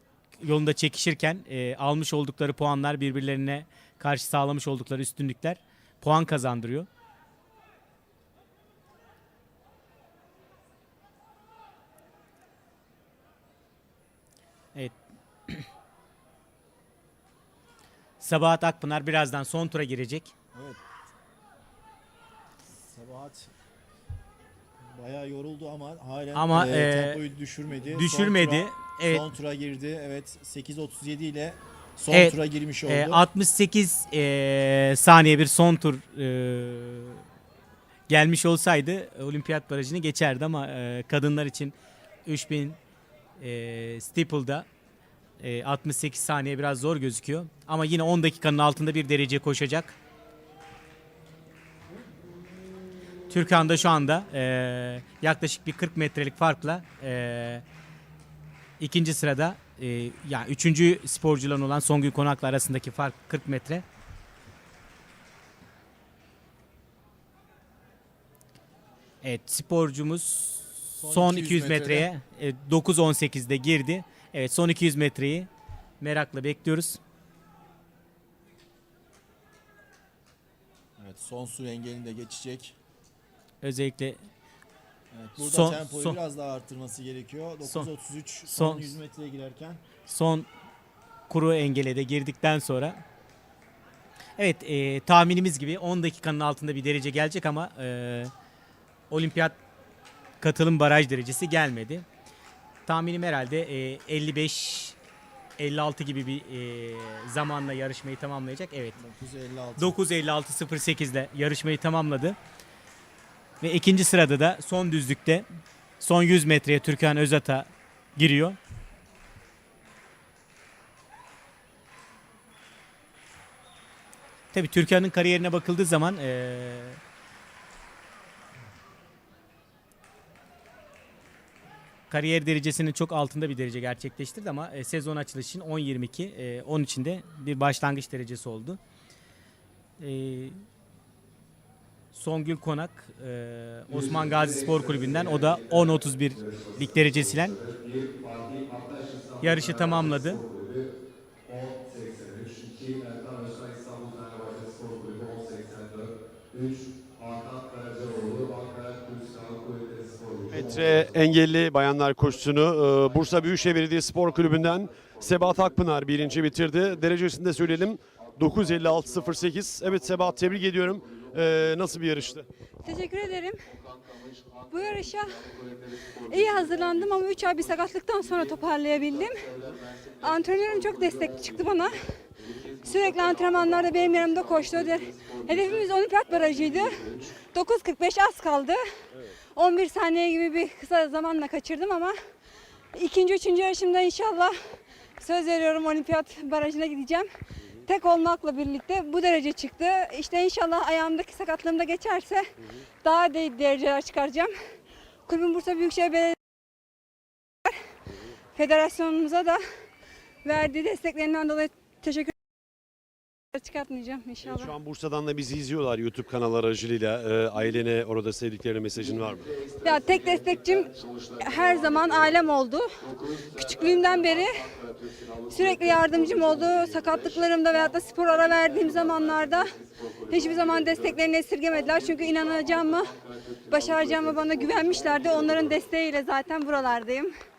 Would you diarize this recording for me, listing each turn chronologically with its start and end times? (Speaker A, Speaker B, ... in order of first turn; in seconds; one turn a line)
Speaker A: 0.4-6.9
Speaker A: 18.2-20.3
Speaker B: 20.5-20.8
Speaker B: 22.7-23.5
Speaker B: 24.9-33.2
Speaker A: 26.3-27.2
Speaker A: 27.8-29.2
Speaker A: 32.1-32.4
Speaker A: 32.9-37.2
Speaker A: 38.1-42.8
Speaker A: 43.4-44.7
Speaker A: 45.4-50.0
Speaker A: 53.3-57.6
Speaker A: 58.8-63.8
Speaker A: 69.2-75.5
Speaker B: 71.0-72.1
Speaker A: 76.0-77.0
Speaker B: 81.0-82.8
Speaker A: 83.6-84.2
Speaker B: 85.1-89.8
Speaker A: 85.4-86.2
Speaker A: 87.6-87.9
Speaker A: 88.5-89.0
Speaker A: 90.1-90.5
Speaker A: 91.3-93.0
Speaker A: 94.4-98.3
Speaker A: 99.1-99.6
Speaker A: 100.4-102.0
Speaker A: 102.9-105.0
Speaker A: 105.6-109.0
Speaker B: 109.0-110.0
Speaker A: 109.8-112.4
Speaker A: 113.6-115.5
Speaker A: 116.0-118.6
Speaker A: 124.5-127.0
Speaker A: 132.1-138.8
Speaker A: 140.0-140.6
Speaker A: 142.1-147.6
Speaker C: 147.6-149.4
Speaker A: 149.4-150.4
Speaker C: 149.9-150.9
Speaker C: 152.0-155.8
Speaker C: 156.5-172.5
Speaker A: 160.5-160.9
Speaker D: 172.8-173.7
Speaker D: 174.7-175.5
Speaker D: 176.3-179.5
Speaker D: 180.2-182.0
Speaker D: 182.8-188.8
Speaker D: 189.6-192.1
Speaker D: 192.9-194.6
Speaker D: 195.2-197.3
Speaker D: 197.8-202.5
Speaker D: 203.0-204.5
Speaker D: 205.3-206.4
Speaker D: 208.6-209.6
Speaker D: 210.4-212.3
Speaker D: 213.5-214.7
Speaker C: 214.4-219.5
Speaker D: 219.8-222.9
Speaker D: 223.6-224.7
Speaker D: 225.5-229.8
Speaker D: 230.3-237.3